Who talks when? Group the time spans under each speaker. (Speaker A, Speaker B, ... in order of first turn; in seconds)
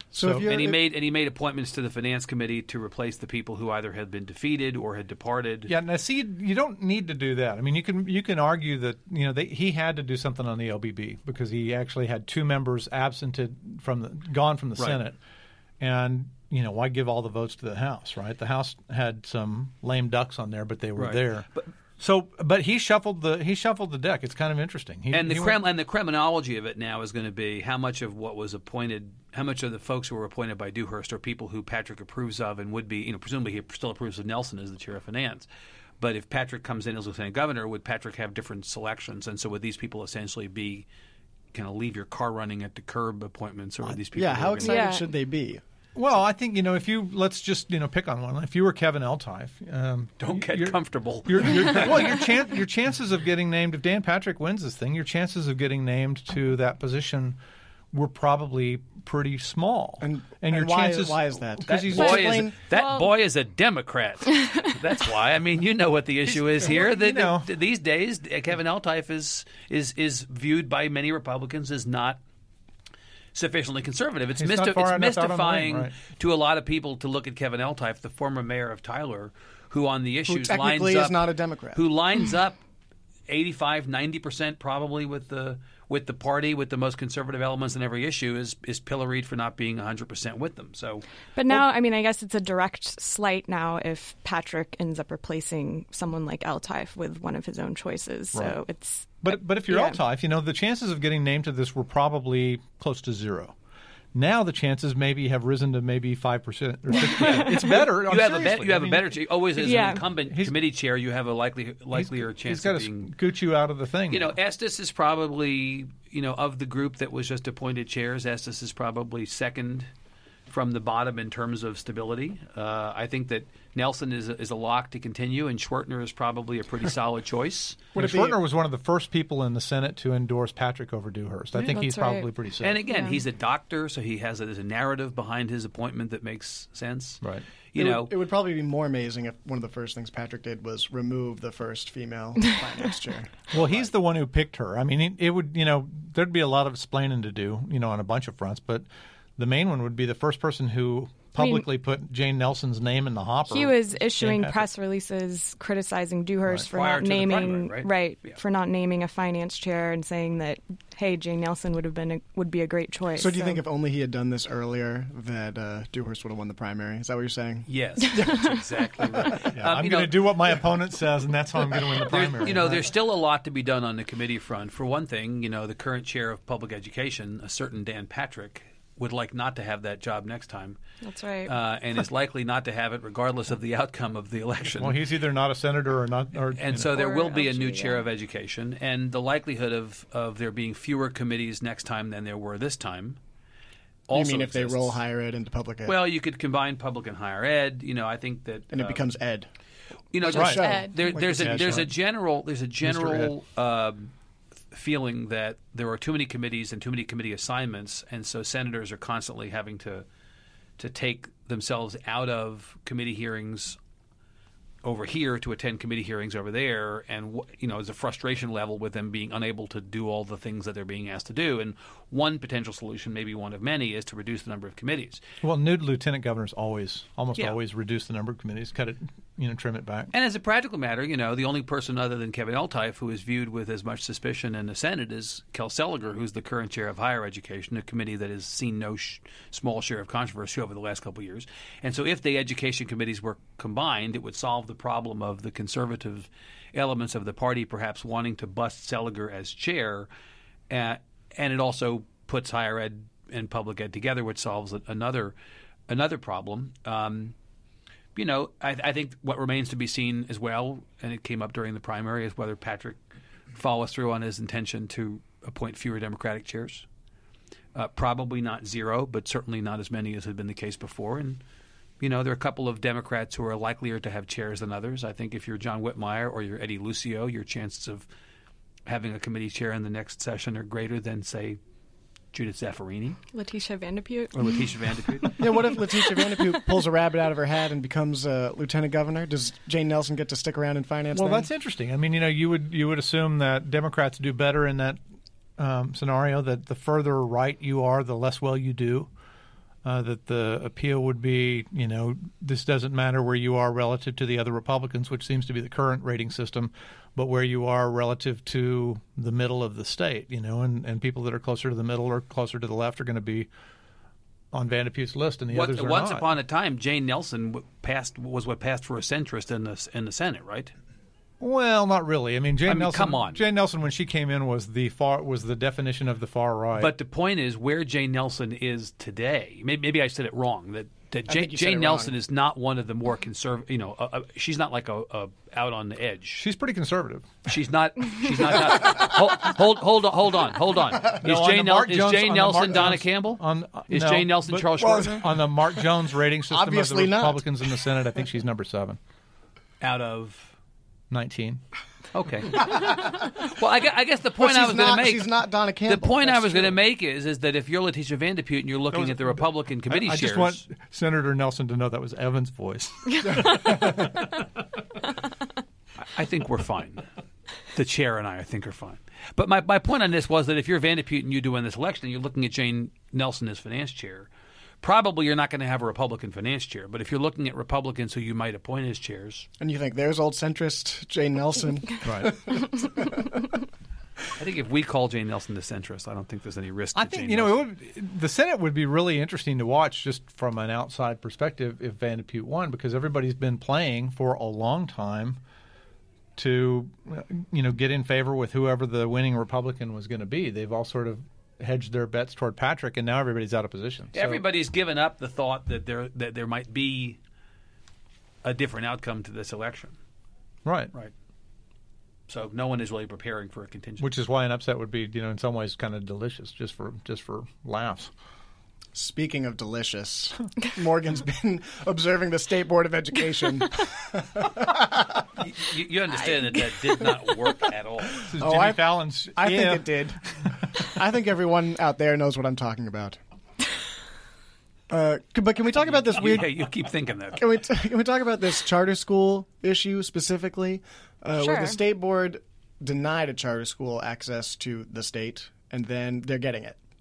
Speaker A: 0.1-0.8, 43.8-45.6, 60.0-62.6, 80.2-81.8, 127.9-128.4, 137.8-143.7, 163.2-168.3, 194.1-196.0, 198.7-199.5, 200.2-201.8, 285.4-291.5, 331.3-332.1, 346.5-347.4, 354.3-356.8, 379.6-383.3, 418.9-425.0, 428.2-433.2, 434.9-436.6, 437.4-446.8
Speaker B: 0.2-0.5, 5.7-15.2, 15.8-21.5, 22.0-25.6, 45.9-57.4, 57.9-62.5, 66.6-67.5, 74.4-75.9, 99.2-103.5, 104.1-109.2, 110.2-110.5, 111.9-114.3, 128.0-132.8, 143.5-148.8, 149.4-154.7, 169.5-172.9, 184.7-186.9, 200.3-200.7, 201.3-201.9, 202.8-203.3, 225.4-230.1, 291.1-295.0, 295.6-299.1, 299.8-313.5, 314.5-316.2, 321.4-326.9, 336.4-337.4, 341.1-349.0, 351.1-351.6, 358.9-364.4, 382.0-382.3, 386.9-395.4, 396.4-404.4, 410.6-410.9, 414.0-418.1, 428.3-429.9
Speaker C: 0.2-5.7, 20.9-21.7, 25.1-35.5, 36.0-40.9, 41.5-44.8, 50.2-52.3, 61.7-72.2, 73.3-82.6, 83.3-91.0, 107.0-113.1, 114.1-119.9, 120.5-127.9, 132.6-138.1, 156.7-158.4, 167.7-170.6, 171.9-180.8, 181.4-185.0, 186.6-193.2, 194.1-195.0, 195.8-199.1, 200.1-204.1, 204.7-210.1, 210.8-213.8, 214.8-225.2, 230.1-250.1, 250.7-255.3, 255.9-257.3, 258.1-263.0, 263.5-266.9, 267.7-271.4, 272.0-278.1, 278.9-281.6, 282.3-283.2, 284.3-285.8, 315.5-320.7, 322.7-323.4, 326.8-336.4, 337.4-345.4, 349.8-350.5, 352.1-360.6, 365.9-367.1, 367.7-374.3, 374.8-379.5, 384.4-387.6, 404.1-407.2, 408.4-409.9, 412.3-414.1, 425.4-428.2, 435.8-437.6
Speaker D: 44.6-45.1, 62.7-63.1, 91.3-100.0, 109.6-110.0, 131.5-132.3, 132.9-133.2, 151.4-151.7, 153.5-163.6, 168.3-168.5, 181.0-181.5, 186.9-188.0, 200.6-200.9, 283.3-284.6, 441.4-441.8